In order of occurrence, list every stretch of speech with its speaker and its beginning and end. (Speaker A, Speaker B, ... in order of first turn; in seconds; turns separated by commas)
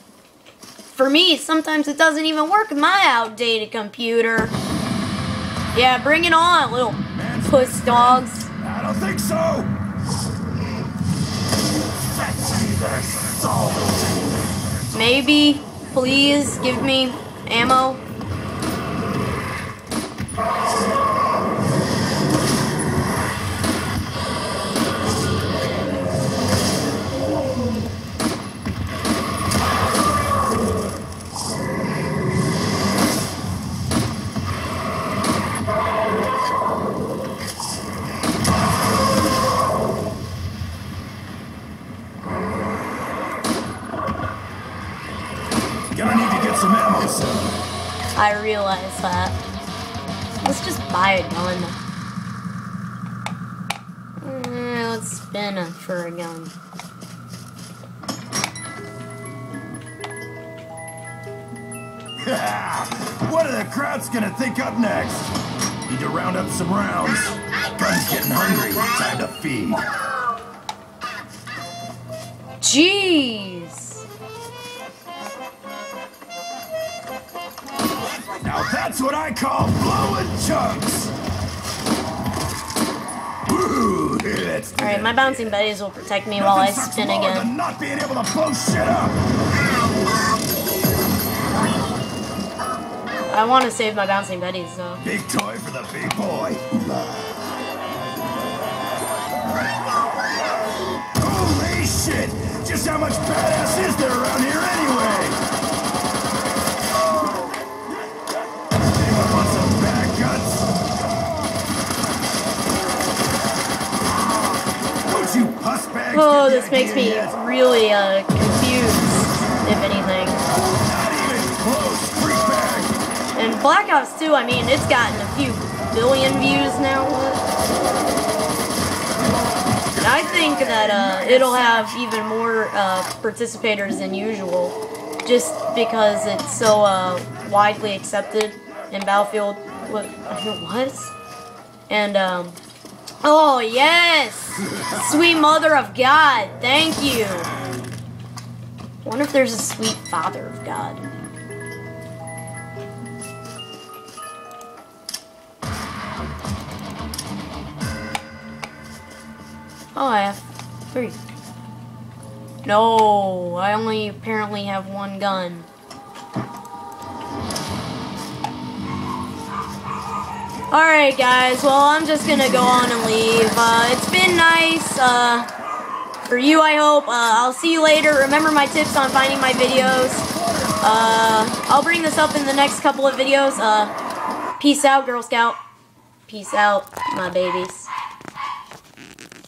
Speaker A: 0.9-4.5, Speaker A: 5.7-8.5, Speaker B: 7.1-9.7, Speaker B: 12.0-14.0, Speaker A: 14.9-18.0, Speaker B: 45.9-47.5, Speaker A: 48.1-49.4, Speaker A: 50.4-51.8, Speaker A: 54.2-56.5, Speaker B: 62.2-65.3, Speaker B: 65.9-69.9, Speaker A: 72.6-74.0, Speaker B: 78.4-81.1, Speaker B: 83.5-85.6, Speaker A: 84.8-87.5, Speaker B: 86.3-89.2, Speaker A: 93.3-95.0, Speaker B: 95.0-97.3, Speaker B: 101.2-105.4, Speaker B: 108.9-110.7, Speaker B: 115.0-117.4, Speaker A: 116.1-120.4, Speaker B: 120.7-123.0, Speaker A: 123.3-127.4, Speaker B: 129.9-132.0, Speaker A: 130.0-141.1, Speaker A: 141.9-142.6, Speaker A: 143.2-147.5, Speaker A: 149.0-151.1, Speaker A: 159.9-161.2, Speaker A: 162.6-165.7, Speaker A: 170.7-175.5, Speaker A: 176.2-180.3, Speaker A: 180.8-183.9, Speaker A: 184.6-185.6, Speaker A: 186.3-187.9